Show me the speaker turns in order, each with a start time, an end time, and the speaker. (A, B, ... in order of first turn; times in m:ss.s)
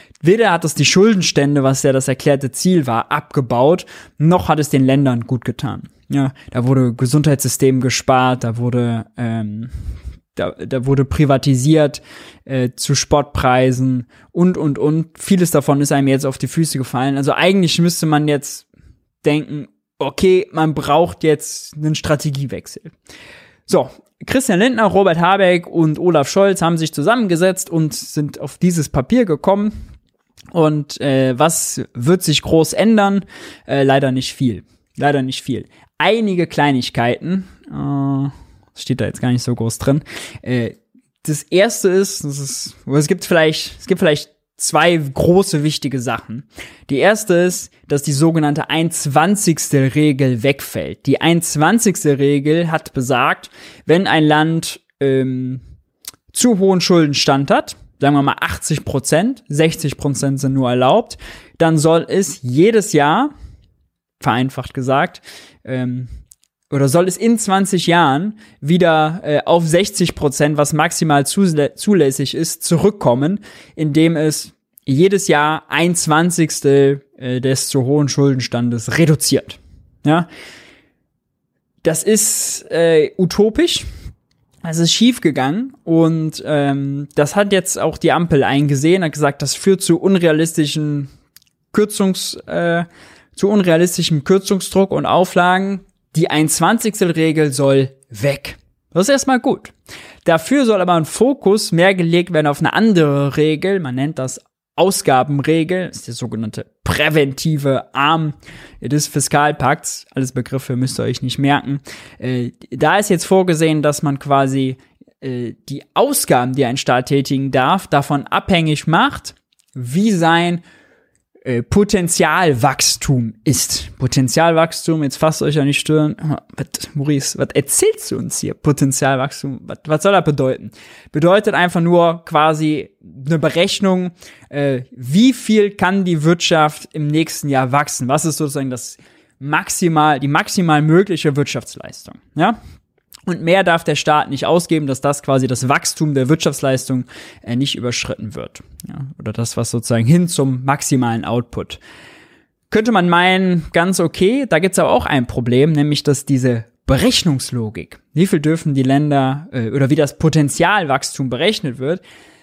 0:00.2-0:09.7 A
0:10.4-0:18.6 A
0:19.2-0:22.9 A
0:23.7-0:29.8 A
0:30.5-0:55.6 A
0:56.3-1:03.3 A
1:04.2-1:06.1 A
1:06.7-1:20.3 A
1:21.8-1:23.9 A
1:24.6-1:31.1 A
1:31.7-1:39.7 A
1:40.2-2:00.6 A
2:01.4-2:22.6 A
2:23.3-2:31.8 A
2:32.7-2:42.0 A